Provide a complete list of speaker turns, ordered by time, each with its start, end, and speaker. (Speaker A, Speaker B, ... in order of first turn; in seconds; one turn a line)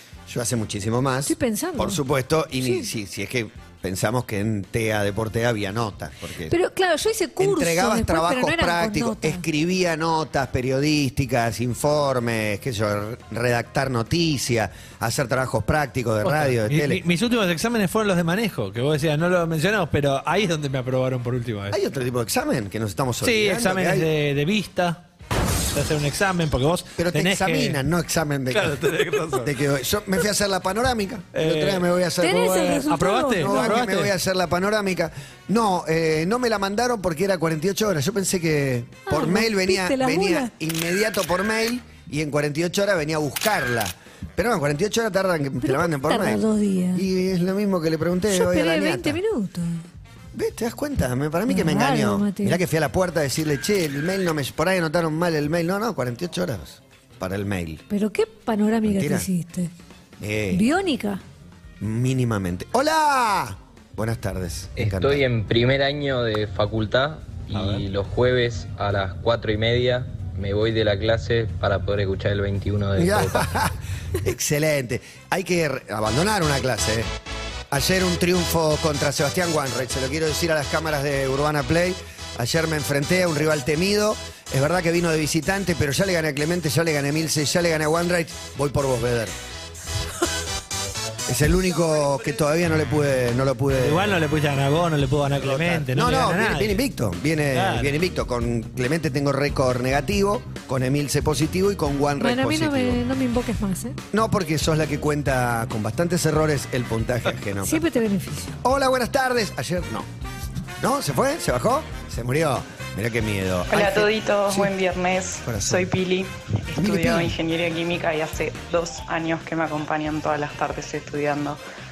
Speaker A: 0.3-6.5
Speaker B: 1.2-2.0
Speaker B: 2.6-2.9
Speaker B: 6.5-9.4
Speaker A: 7.4-17.0
Speaker C: 16.2-21.8
Speaker A: 21.7-24.1
Speaker C: 23.2-25.0
Speaker C: 25.7-27.8
Speaker A: 27.0-32.9
Speaker C: 28.5-29.5
Speaker C: 31.3-31.9
Speaker B: 32.2-33.8
Speaker C: 32.6-34.1
Speaker A: 33.4-49.2
Speaker B: 39.0-40.5
Speaker B: 45.6-47.0
Speaker B: 48.3-49.8
Speaker A: 50.3-57.8
Speaker B: 51.5-52.6
Speaker B: 57.9-59.7
Speaker A: 58.8-59.3
Speaker A: 60.2-60.7
Speaker B: 60.5-61.2
Speaker A: 61.8-65.2
Speaker D: 64.8-73.4
Speaker A: 67.5-67.8
Speaker A: 73.0-77.1
Speaker A: 77.7-89.3
Speaker A: 91.3-94.2
Speaker C: 93.8-96.8
Speaker A: 95.3-103.0
Speaker C: 97.5-97.9
Speaker B: 102.2-104.0
Speaker A: 104.1-107.8
Speaker B: 107.6-108.6
Speaker A: 108.6-110.1
Speaker A: 110.8-114.7
Speaker E: 113.7-121.6
Speaker A: 115.4-115.9
Speaker A: 116.8-117.3